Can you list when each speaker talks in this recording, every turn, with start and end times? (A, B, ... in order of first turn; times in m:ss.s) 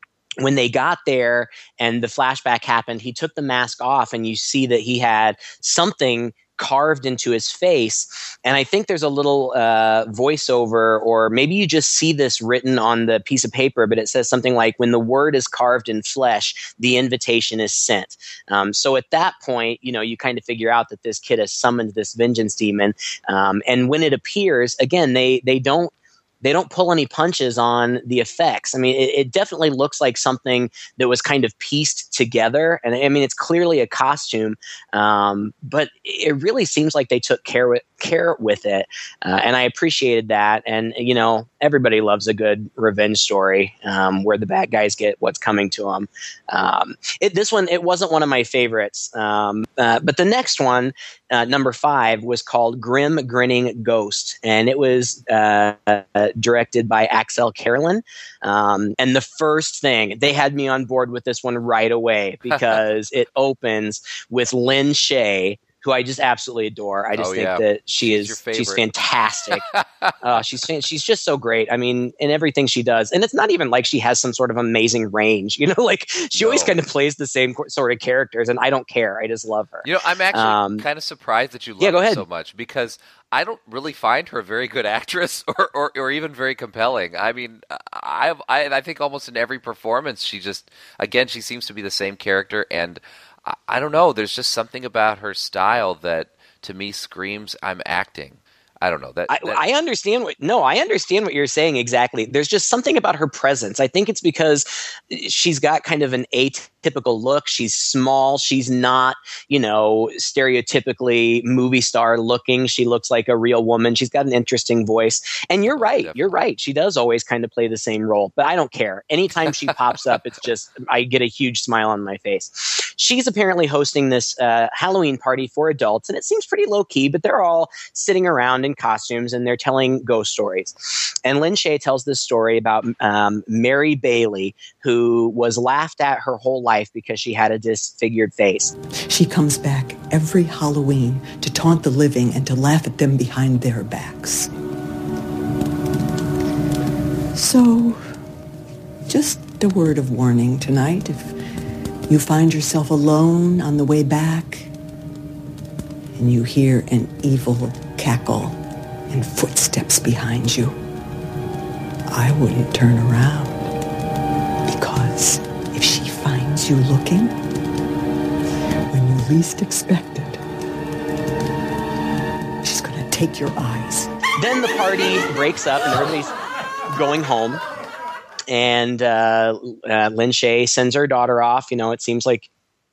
0:00.4-1:09.6 A
1:02.5-1:02.8 B
1:07.2-1:08.8 B
1:09.5-1:10.6 B
1:10.2-1:20.8 A
1:16.3-1:16.8 B
1:19.8-1:39.6 B
1:21.8-1:22.2 A
1:39.3-2:18.7 A
1:55.7-1:56.4 B
1:59.4-2:00.1 B
2:19.1-2:24.5 C
2:27.4-2:28.2 C
2:29.1-2:31.3 C
2:32.1-2:34.7 C
2:36.2-2:38.6 C
2:39.1-2:40.8 C
2:42.1-2:43.7 C
2:44.7-2:47.4 C
2:48.9-2:50.4 C
2:52.6-2:54.1 C
2:54.4-2:56.3 A
2:56.9-2:57.6 A
2:58.5-3:02.5 A